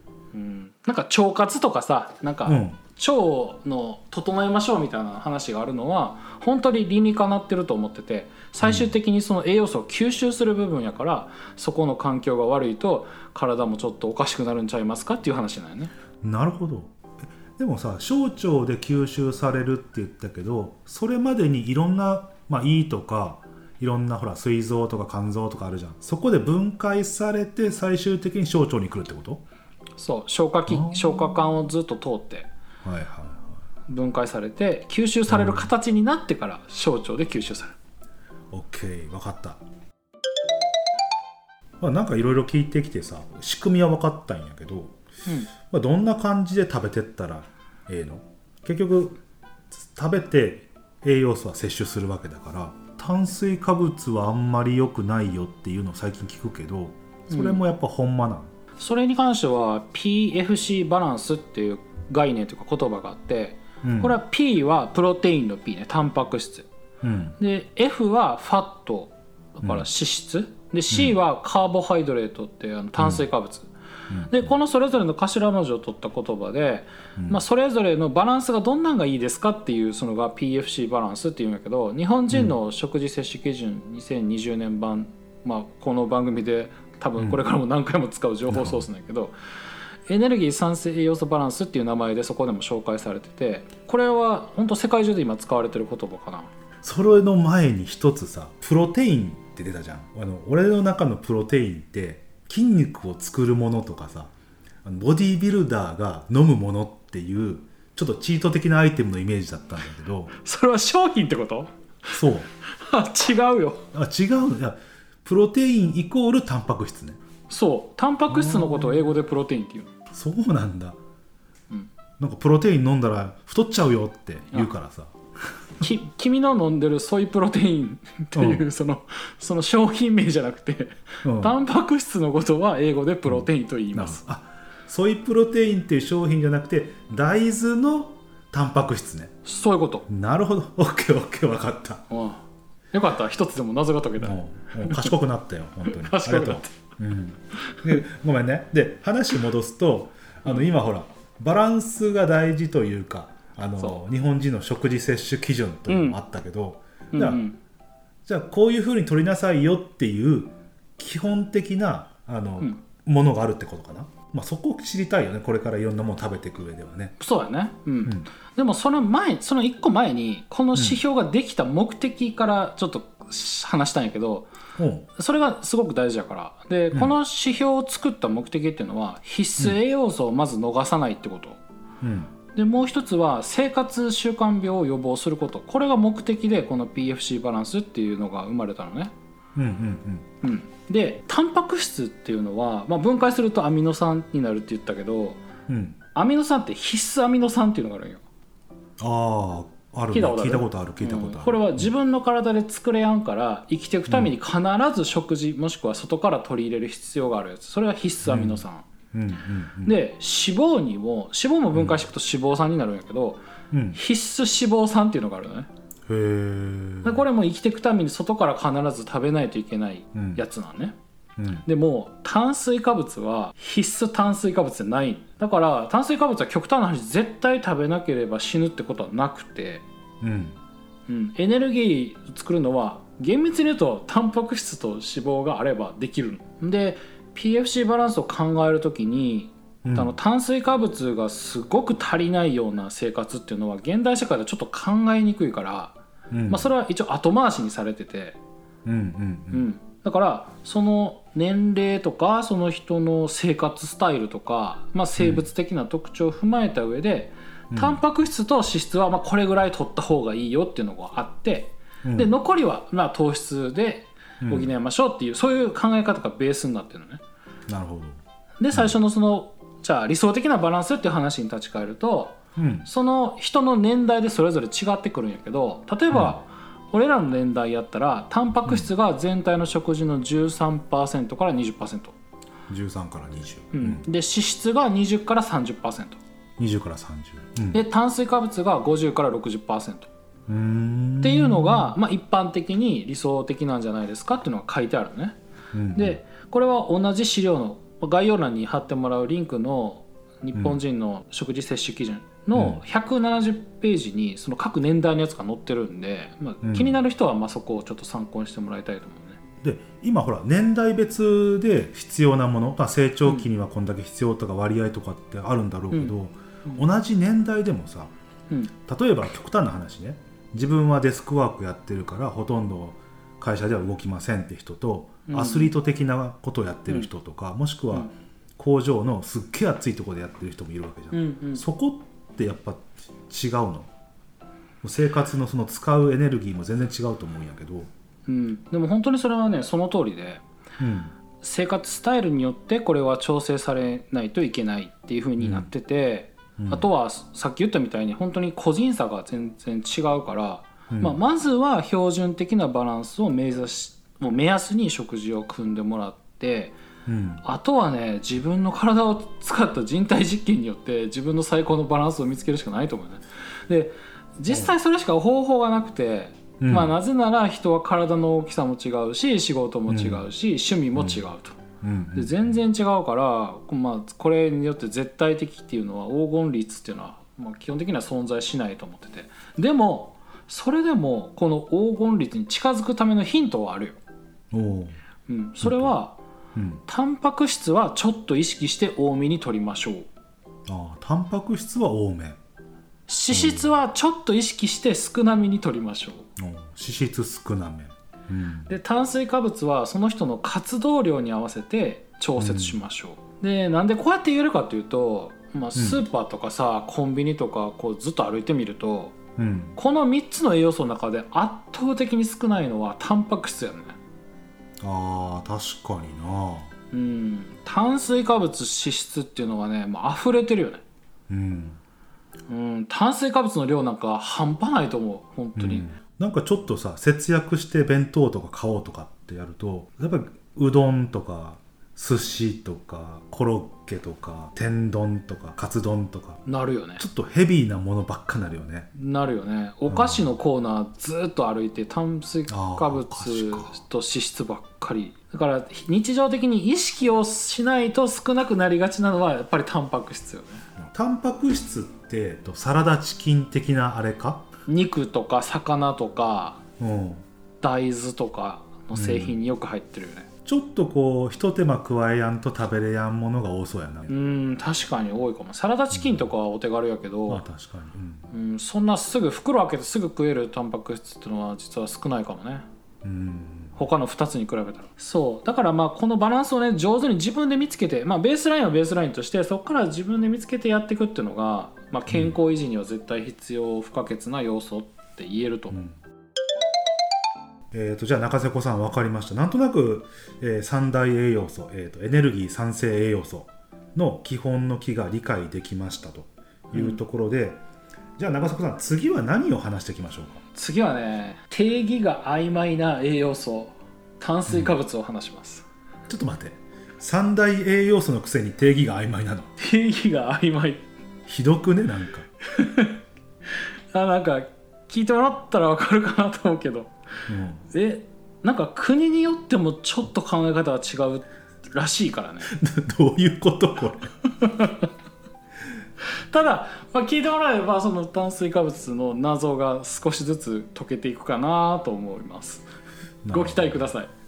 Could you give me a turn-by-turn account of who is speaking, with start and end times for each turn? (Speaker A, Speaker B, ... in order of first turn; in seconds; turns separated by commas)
Speaker A: 0.3-15.9, Speaker B: 2.5-2.8, Speaker B: 8.6-8.9, Speaker B: 16.2-17.0, Speaker B: 17.5-29.4, Speaker A: 30.0-32.5, Speaker B: 30.7-31.6, Speaker B: 32.8-33.6, Speaker A: 33.9-37.8, Speaker B: 35.3-35.7, Speaker B: 38.5-39.6, Speaker B: 41.8-45.0, Speaker A: 45.3-45.5, Speaker B: 45.5-49.2, Speaker B: 49.7-58.5, Speaker A: 57.3-57.6, Speaker A: 58.8-66.7, Speaker B: 63.8-64.2, Speaker B: 67.0-67.4, Speaker A: 67.4-73.7, Speaker B: 73.0-73.2, Speaker A: 74.3-89.3, Speaker B: 88.5-88.9, Speaker A: 90.1-96.5, Speaker B: 96.8-104.3, Speaker B: 104.8-110.3, Speaker A: 110.4-112.2, Speaker B: 112.1-112.5, Speaker A: 112.7-113.9, Speaker B: 113.9-117.2, Speaker A: 117.5-119.9, Speaker B: 118.3-119.1, Speaker B: 120.1-121.0, Speaker B: 122.2-125.1, Speaker A: 125.8-134.2, Speaker B: 128.3-128.6, Speaker B: 131.2-131.5, Speaker B: 133.3-139.3, Speaker A: 139.4-140.1, Speaker B: 140.1-142.0, Speaker A: 142.1-145.1, Speaker B: 144.2-157.4, Speaker A: 145.8-146.8, Speaker A: 147.6-148.0, Speaker A: 155.9-156.2, Speaker A: 157.1-157.6, Speaker B: 158.3-167.1, Speaker A: 167.2-174.5, Speaker B: 174.8-175.1, Speaker A: 175.2-181.6, Speaker B: 182.0-182.3, Speaker A: 182.6-189.1, Speaker B: 189.6-190.3, Speaker A: 190.4-195.4, Speaker B: 195.7-196.0, Speaker A: 196.1-198.2, Speaker B: 199.0-201.9, Speaker A: 200.1-208.9, Speaker B: 208.2-209.9, Speaker A: 209.8-213.4, Speaker B: 213.7-214.0, Speaker A: 213.9-215.7, Speaker B: 216.1-217.2, Speaker A: 217.0-220.9, Speaker B: 220.1-220.4, Speaker B: 221.4-221.6, Speaker A: 221.6-229.8, Speaker B: 230.2-230.6, Speaker A: 231.1-246.0, Speaker B: 239.8-240.1, Speaker B: 246.3-246.7, Speaker A: 246.5-248.4, Speaker B: 248.8-249.7, Speaker A: 249.5-267.2, Speaker B: 255.2-255.4, Speaker B: 257.7-258.0, Speaker B: 262.0-262.3, Speaker B: 264.4-264.7, Speaker B: 267.7-268.2, Speaker A: 268.6-282.1, Speaker B: 272.6-272.9, Speaker B: 276.1-276.4, Speaker B: 282.7-284.0, Speaker A: 283.7-286.2, Speaker B: 286.6-287.8, Speaker A: 287.7-290.1, Speaker B: 290.5-291.9, Speaker A: 291.2-295.4, Speaker B: 295.7-296.2, Speaker A: 295.9-309.4, Speaker B: 306.6-307.0, Speaker B: 309.6-318.1, Speaker B: 318.9-333.9, Speaker A: 325.3-325.7, Speaker A: 331.1-331.6, Speaker B: 334.8-337.9, Speaker A: 338.3-340.4, Speaker B: 340.8-341.1, Speaker A: 341.4-356.8, Speaker B: 345.4-345.7, Speaker B: 346.6-346.9, Speaker B: 350.9-351.2, Speaker B: 357.1-357.4, Speaker A: 357.4-384.0, Speaker B: 366.6-366.9, Speaker B: 369.9-370.2, Speaker B: 370.9-371.2, Speaker B: 371.8-372.5, Speaker B: 384.5-385.0, Speaker A: 385.3-386.2, Speaker B: 385.6-385.9, Speaker B: 386.6-386.8, Speaker A: 386.9-390.1, Speaker B: 390.6-392.4, Speaker A: 393.1-396.3, Speaker B: 393.3-393.7, Speaker B: 396.4-398.7, Speaker A: 398.7-409.1, Speaker B: 402.4-402.8, Speaker B: 405.8-406.0, Speaker B: 409.4-409.8, Speaker A: 409.8-414.0, Speaker B: 414.8-416.7, Speaker A: 416.9-420.8, Speaker B: 421.3-421.8, Speaker A: 422.5-425.9, Speaker B: 425.6-436.4, Speaker A: 436.4-437.1, Speaker B: 437.0-438.9, Speaker A: 438.9-450.6, Speaker B: 439.9-440.2, Speaker B: 442.5-443.7, Speaker B: 450.8-454.4, Speaker A: 454.7-456.6, Speaker B: 456.8-457.2, Speaker A: 457.6-460.3, Speaker B: 458.9-459.4, Speaker B: 460.4-464.1, Speaker A: 464.1-467.4, Speaker B: 465.9-466.2, Speaker B: 467.3-468.3, Speaker A: 468.3-472.6, Speaker B: 473.0-473.8, Speaker A: 473.8-485.8, Speaker B: 482.1-482.3, Speaker B: 485.7-486.0, Speaker B: 487.7-497.6, Speaker A: 496.7-497.0, Speaker B: 498.2-500.4, Speaker A: 500.6-505.6, Speaker B: 504.5-504.7, Speaker B: 506.1-509.5, Speaker A: 509.6-510.8, Speaker B: 511.3-512.3, Speaker A: 512.5-513.0, Speaker A: 513.9-516.9, Speaker B: 517.3-517.6, Speaker A: 517.7-522.5, Speaker B: 522.5-524.1, Speaker A: 524.4-524.9, Speaker A: 526.0-532.6, Speaker B: 533.2-533.9, Speaker A: 533.3-534.1